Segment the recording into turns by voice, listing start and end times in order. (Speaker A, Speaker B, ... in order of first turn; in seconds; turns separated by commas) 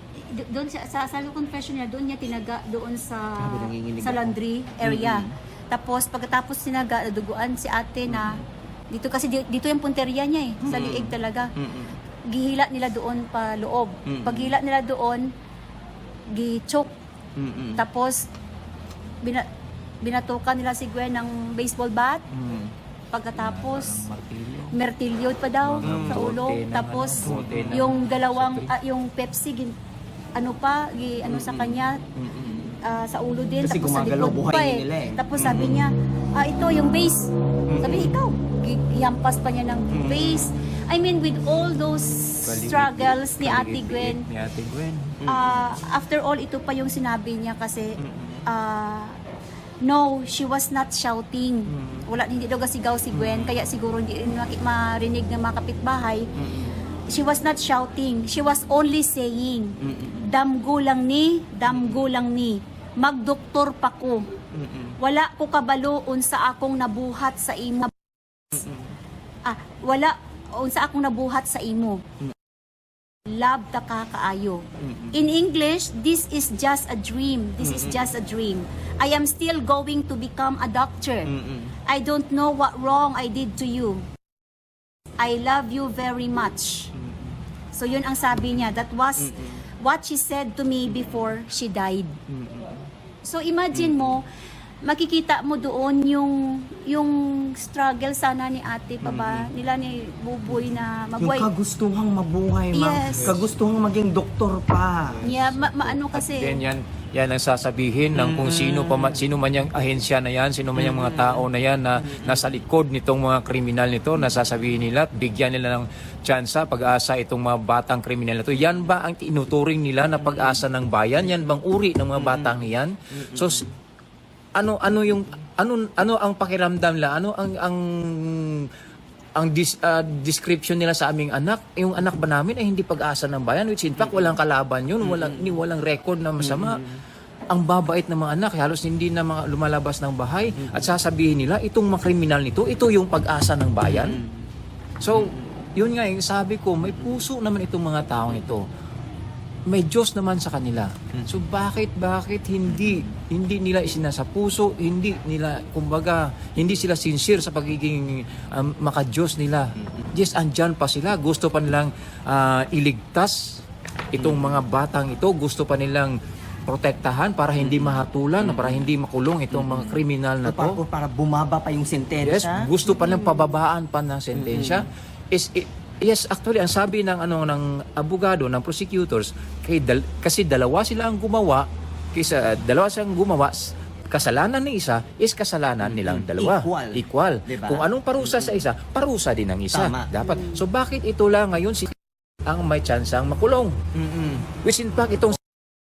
Speaker A: 0.2-11.5, Speaker B: 3.4-5.3, Speaker B: 8.1-8.4, Speaker B: 10.6-11.9, Speaker A: 12.3-15.3, Speaker B: 14.1-14.6, Speaker A: 16.3-16.9, Speaker B: 17.4-17.8, Speaker A: 17.8-18.2, Speaker A: 20.0-22.2, Speaker C: 22.3-22.7, Speaker A: 23.1-24.1, Speaker C: 23.4-24.8, Speaker A: 24.7-29.8, Speaker C: 25.6-28.7, Speaker B: 25.8-26.3, Speaker B: 27.2-27.9, Speaker A: 30.4-32.0, Speaker B: 31.3-32.8, Speaker A: 32.7-44.2, Speaker B: 33.6-35.9, Speaker B: 37.7-38.2, Speaker B: 39.9-40.5, Speaker C: 42.4-45.2, Speaker B: 45.2-45.5, Speaker A: 45.2-49.2, Speaker B: 48.0-48.4, Speaker A: 49.8-56.2, Speaker B: 51.7-52.0, Speaker B: 53.1-53.5, Speaker A: 57.1-64.3, Speaker B: 59.8-60.2, Speaker B: 61.7-62.0, Speaker B: 64.5-65.0, Speaker A: 65.0-67.9, Speaker B: 68.5-68.8, Speaker A: 69.5-72.0, Speaker A: 73.3-81.3, Speaker B: 74.8-75.1, Speaker B: 77.6-78.0, Speaker B: 81.3-81.7, Speaker A: 81.9-84.1, Speaker A: 85.2-86.9, Speaker B: 87.0-87.3, Speaker A: 87.7-92.2, Speaker B: 92.3-92.8, Speaker A: 93.2-94.3, Speaker B: 93.8-94.1, Speaker A: 94.8-101.5, Speaker B: 99.0-99.5, Speaker B: 101.2-105.3, Speaker A: 102.7-103.4, Speaker C: 105.1-123.7, Speaker A: 105.2-106.6, Speaker B: 108.1-109.2, Speaker B: 110.8-111.5, Speaker B: 112.0-112.4, Speaker B: 122.2-122.7, Speaker B: 123.3-123.6, Speaker C: 124.6-128.7, Speaker C: 129.4-136.9, Speaker B: 135.0-135.6, Speaker B: 136.4-137.0, Speaker C: 137.5-144.2, Speaker B: 143.9-144.4, Speaker C: 145.0-148.6, Speaker B: 145.2-145.4, Speaker C: 149.7-163.4, Speaker C: 164.1-166.1, Speaker C: 166.7-170.8, Speaker B: 167.6-168.9, Speaker B: 169.5-173.4, Speaker C: 172.2-191.9, Speaker B: 174.3-174.9, Speaker B: 185.8-188.5, Speaker B: 189.7-190.1, Speaker C: 192.4-193.8, Speaker B: 194.0-194.4, Speaker C: 194.6-195.4